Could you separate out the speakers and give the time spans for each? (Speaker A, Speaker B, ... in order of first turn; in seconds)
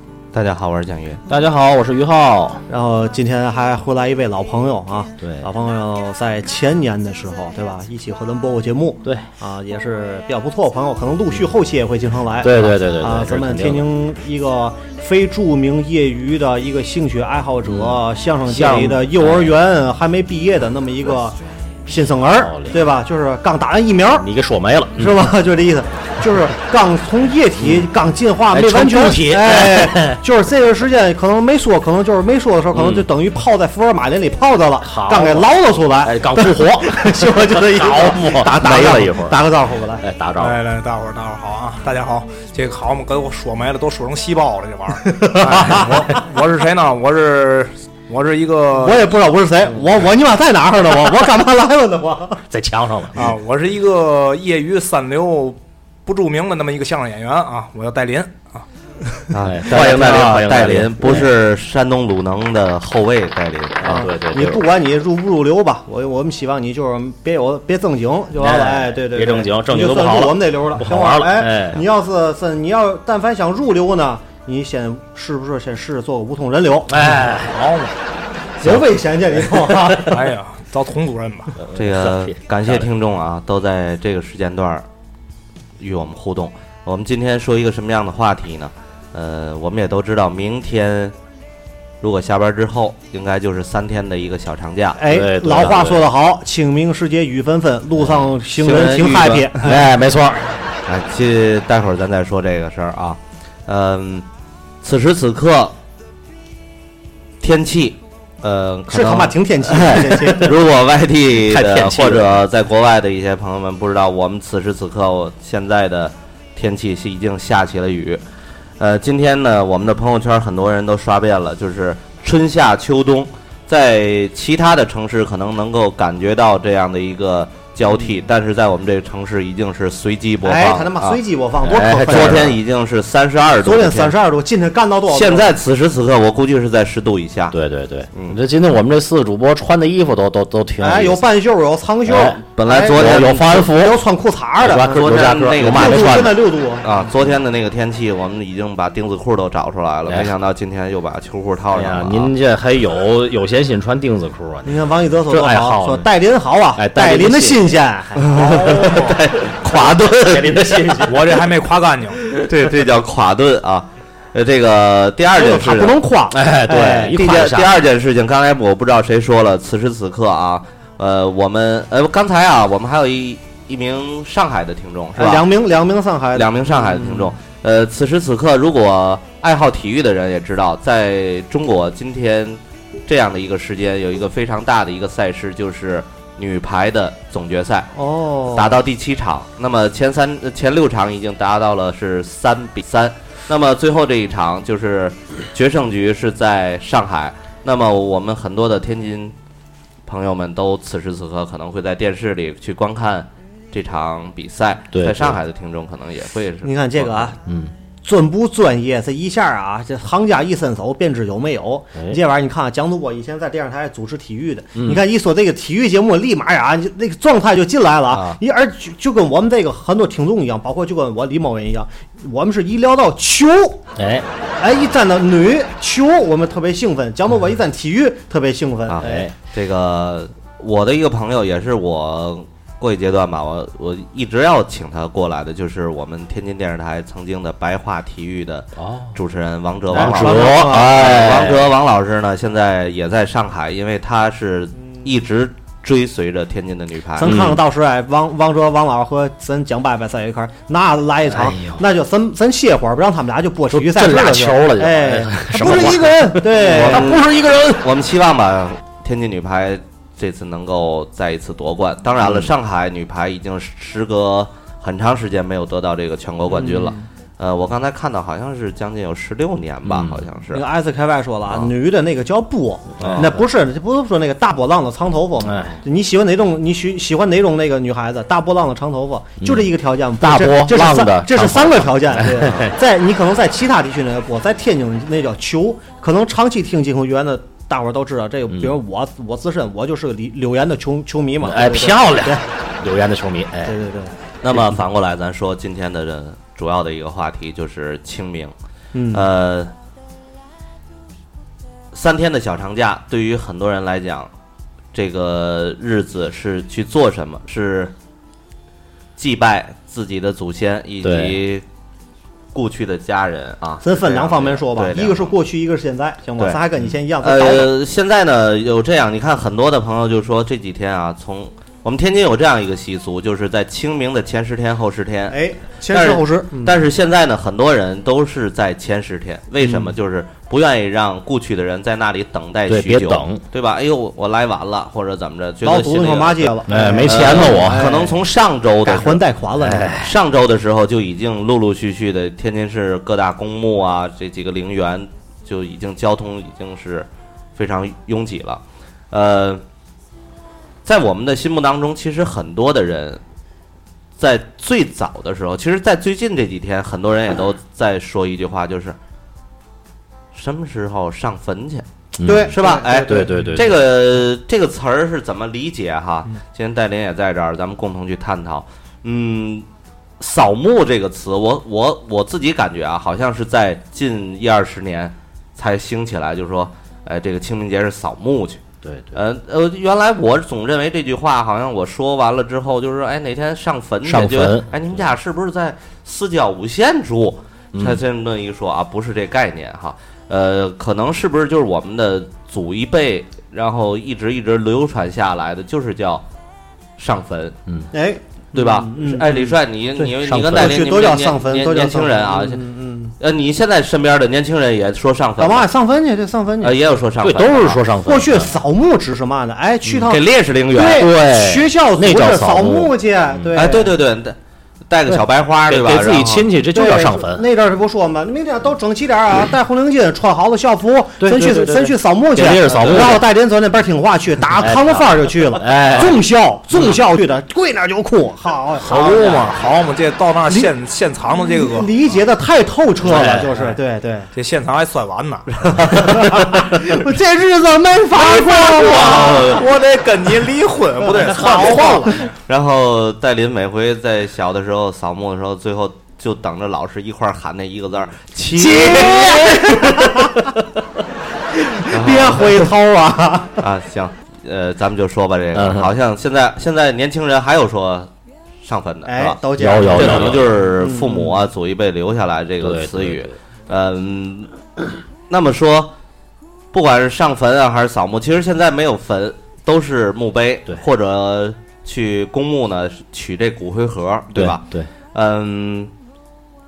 Speaker A: 0.3-1.2, 59.3-64.0, 81.7-84.8, 85.8-91.1, 92.0-95.0, 98.5-99.5, 100.8-104.2, 104.8-105.7, 107.4-118.2, 118.8-131.2, 132.1-134.1, 135.1-137.6, 138.1-138.4, 142.5-143.7, 144.8-146.3, 146.8-152.3, 158.2-161.0, 162.3-166.0, 167.1-175.5, 176.3-187.9, 188.5-199.3, 200.1-207.3, 218.1-218.4, 228.9-247.3, 256.6-270.6, 273.0-273.3, 294.4-298.5, 299.1-299.7, 301.9-304.3, 304.9-307.9, 309.2-311.6, 312.5-315.3, 317.2-339.2, 339.9-349.6, 350.8-353.2, 354.2-359.0, 360.3-369.7, 370.2-396.2, 397.0-397.6, 398.5-402.6, 403.2-405.7, 406.6-407.8, 410.1-411.1, 413.5-414.4, 414.9-416.3, 435.6-436.7, 438.9-439.6, 441.1-450.0, 451.9-452.7, 453.6-458.1, 458.6-464.5, 465.3-465.9, 466.7-475.9
Speaker B: 1.3-2.6, 5.2-5.5, 12.4-13.9, 17.6-19.6, 22.3-22.8, 24.1-25.3, 27.6-27.9, 28.5-30.2, 32.7-33.1, 34.8-39.4, 40.0-40.6, 52.5-53.3, 59.4-61.3, 63.8-64.6, 68.4-71.8, 76.9-77.6, 78.6-78.9, 79.4-79.9, 81.6-82.9, 95.0-96.1, 99.6-100.6, 111.4-112.4, 131.6-132.6, 137.5-141.2, 142.1-144.0, 144.6-146.4, 150.1-150.3, 151.7-156.1, 156.8-157.6, 160.2-161.2, 166.3-167.9, 204.9-205.4, 207.4-207.7, 214.7-215.0, 223.9-224.3, 229.0-229.3, 238.8-239.2, 239.9-241.7, 247.2-247.6, 251.3-251.8, 253.7-257.8, 262.2-262.5, 269.8-270.2, 273.0-273.4, 275.4-275.8, 279.4-279.7, 280.2-282.7, 288.5-288.8, 291.4-293.8, 311.0-311.4, 332.7-333.4, 336.7-337.9, 339.6-340.1, 362.2-363.8, 378.8-379.2, 384.0-384.7, 387.7-388.0, 400.2-400.9, 407.2-408.5, 410.7-413.6, 415.6-417.4, 421.2-423.2, 424.5-426.2, 428.9-429.5, 433.0-433.7, 455.5-455.9, 459.6-460.5, 462.6-463.4, 474.3-474.9
Speaker C: 2.7-24.3, 25.0-40.0, 45.0-46.0, 48.8-52.4, 63.9-76.9, 78.6-80.2, 95.0-99.8, 108.9-110.6, 130.4-132.5, 133.6-135.5, 140.8-144.9, 145.7-146.9, 154.7-159.2, 165.3-167.4, 175.2-177.3, 187.9-188.8, 206.6-207.3, 208.0-223.8, 224.6-229.2, 239.9-240.9, 247.2-257.2, 266.5-267.1, 270.5-292.4, 293.6-294.1, 298.9-299.3, 313.8-317.7, 325.3-326.8, 329.6-329.9, 335.6-338.2, 338.8-339.9, 362.2-363.3, 397.9-403.1, 405.4-406.9, 408.1-413.9, 416.2-428.9, 431.4-434.3, 436.1-439.5, 441.1-442.2, 448.6-450.5, 451.5-453.6, 459.1-461.4
Speaker D: 40.4-49.1, 53.1-58.6, 77.2-77.9, 80.1-81.6, 161.1-162.2, 428.8-431.9, 434.3-435.5, 438.3-442.3